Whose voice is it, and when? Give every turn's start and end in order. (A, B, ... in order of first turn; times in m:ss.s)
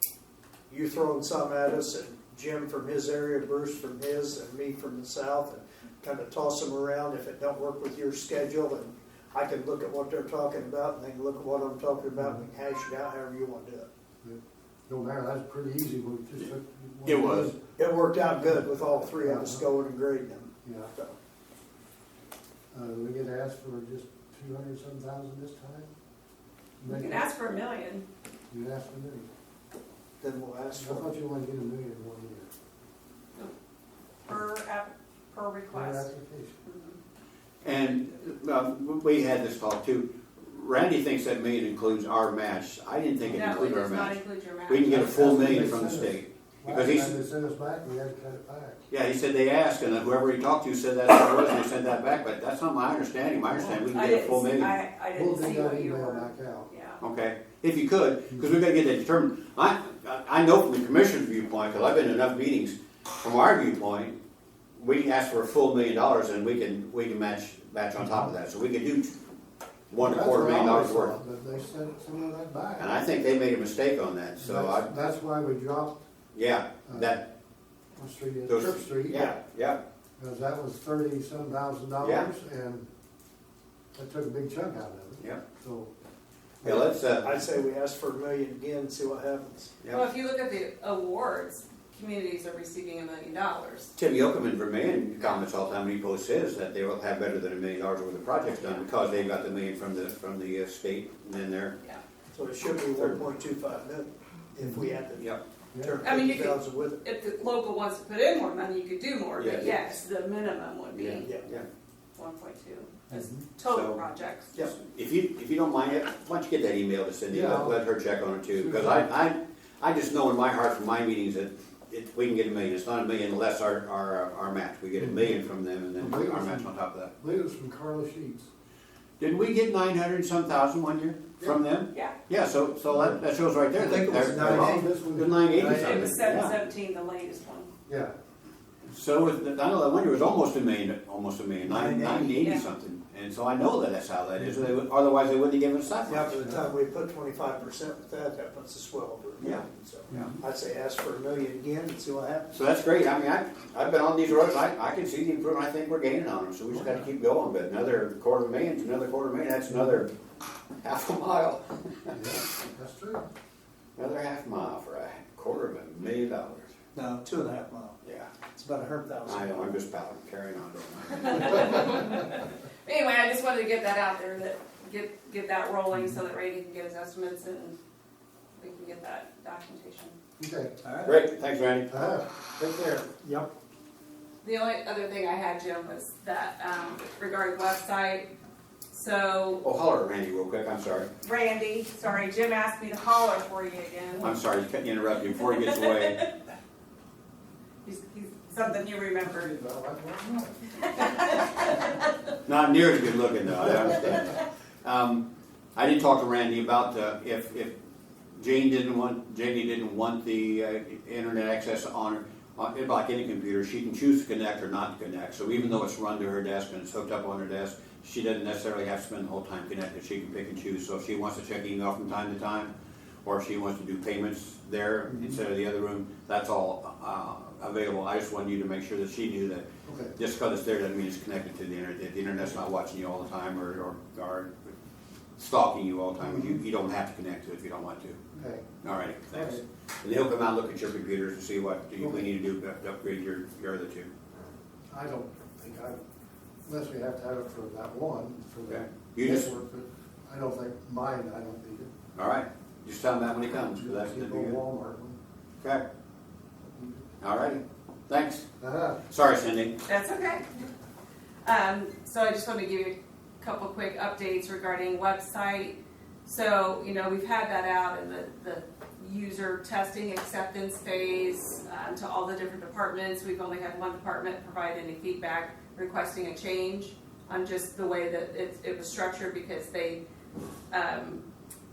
0:00.7-0:13.9 A
0:12.2-0:12.4 B
0:14.2-0:17.6 B
0:17.0-0:17.5 C
0:17.8-0:21.2 A
0:19.2-0:19.6 B
0:20.6-0:20.9 B
0:22.7-0:25.9 B
0:26.8-0:27.3 B
0:26.9-0:28.0 D
0:28.5-0:29.3 B
0:30.2-0:31.1 A
0:30.8-0:32.5 B
0:34.2-0:36.1 D
0:35.7-0:36.6 B
0:36.6-0:37.0 D
0:37.6-0:47.1 C
0:43.3-0:45.3 D
0:44.9-0:48.8 B
0:48.9-0:54.7 C
0:53.5-0:53.8 B
0:53.9-0:57.0 D
0:55.2-0:56.7 B
0:57.0-1:04.2 C
1:04.8-1:09.2 C
1:08.0-1:08.3 B
1:09.9-1:11.2 C
1:10.0-1:13.0 B
1:12.8-1:14.9 C
1:14.4-1:16.0 B
1:16.3-1:17.3 C
1:16.9-1:17.2 B
1:18.0-1:19.3 B
1:18.5-1:19.8 C
1:20.2-1:22.8 B
1:22.0-1:22.3 C
1:24.0-1:25.9 B
1:26.6-1:27.3 C
1:26.6-1:29.7 A
1:29.9-1:33.9 D
1:34.0-1:41.8 C
1:42.3-1:47.0 A
1:44.6-1:44.9 B
1:45.7-1:46.0 B
1:46.0-1:51.3 D
1:49.4-1:49.7 C
1:50.9-1:51.6 C
1:51.2-1:51.5 A
1:52.2-1:54.5 D
1:53.1-1:53.5 B
1:53.6-1:54.0 C
1:54.6-2:07.1 C
1:57.3-1:57.8 B
1:58.5-1:59.1 B
2:05.0-2:05.3 B
2:06.0-2:08.5 B
2:09.2-2:16.5 C
2:12.8-2:13.2 B
2:13.8-2:14.9 A
2:14.1-2:16.2 B
2:15.7-2:17.7 D
2:17.9-2:18.1 B
2:18.9-2:26.4 C
2:21.6-2:22.5 A
2:22.4-2:22.7 D
2:24.4-2:24.7 B
2:26.1-2:32.6 A
2:26.4-2:26.7 B
2:29.4-2:30.3 C
2:32.5-2:40.1 C
2:36.7-2:37.0 B
2:39.7-2:40.0 B
2:40.8-2:42.2 C
2:42.1-2:43.2 B
2:44.0-2:46.7 C
2:47.0-2:49.8 A
2:48.0-2:48.3 C
2:49.3-2:52.0 C
2:51.2-2:57.8 D
2:58.6-3:00.2 D
3:00.4-3:00.7 B
3:00.8-3:01.2 A
3:01.0-3:01.9 C
3:01.9-3:03.1 B
3:03.2-3:03.5 A
3:04.4-3:08.3 D
3:08.9-3:09.6 D
3:09.6-3:11.1 C
3:11.2-3:14.3 D
3:14.2-3:16.3 C
3:15.9-3:16.2 D
3:17.8-3:19.5 D
3:19.2-3:20.8 B
3:20.9-3:21.9 D
3:22.5-3:27.7 C
3:23.6-3:23.9 B
3:28.4-3:42.7 C
3:43.2-3:54.7 C
3:45.1-3:45.4 B
3:49.8-3:50.2 B
3:55.4-3:58.2 C
3:56.2-3:56.6 B
3:58.4-3:58.7 B
3:58.8-4:04.1 C
3:59.3-3:59.6 B
4:02.0-4:02.3 B
4:04.9-4:06.0 B
4:06.6-4:11.9 B
4:08.7-4:09.5 C
4:12.2-4:14.6 C
4:13.8-4:15.2 B
4:16.8-4:17.0 B
4:17.2-4:18.4 C
4:18.6-4:19.0 B
4:19.1-4:19.8 C
4:19.9-4:20.5 D
4:21.4-4:40.0 D
4:40.7-4:41.2 D